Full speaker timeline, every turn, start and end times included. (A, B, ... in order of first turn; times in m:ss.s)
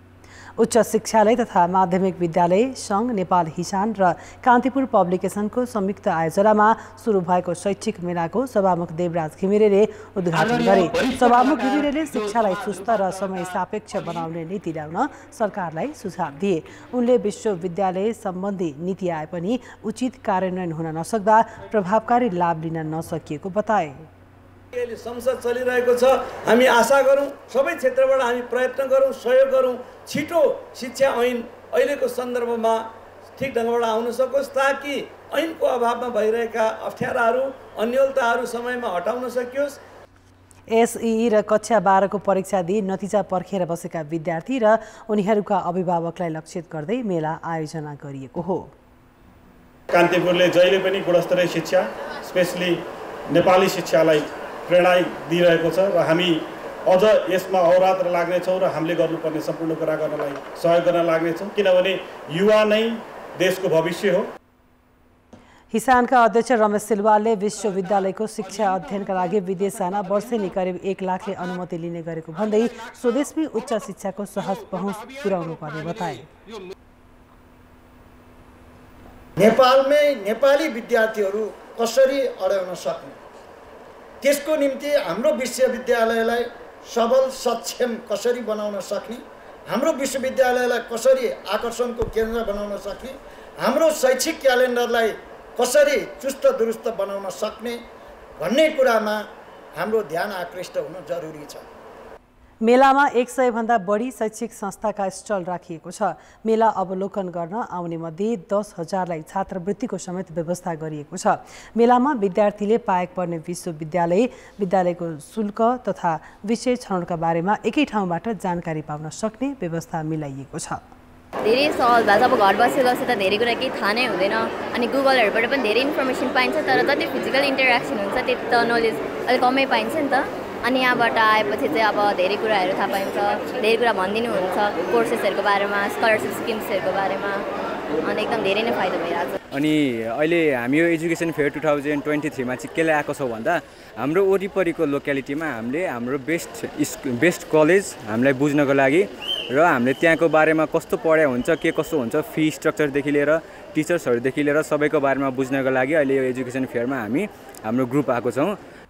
0:00.6-0:24.1 A
0:24.7-0:39.8 B
0:40.7-0:48.7 A
0:49.9-1:04.3 C
1:05.7-1:16.3 A
1:19.4-1:23.2 D
1:24.2-1:37.8 D
1:38.4-1:41.6 D
1:42.6-2:00.8 A
2:01.4-2:17.4 E
2:18.0-2:19.4 E
2:19.5-2:38.6 F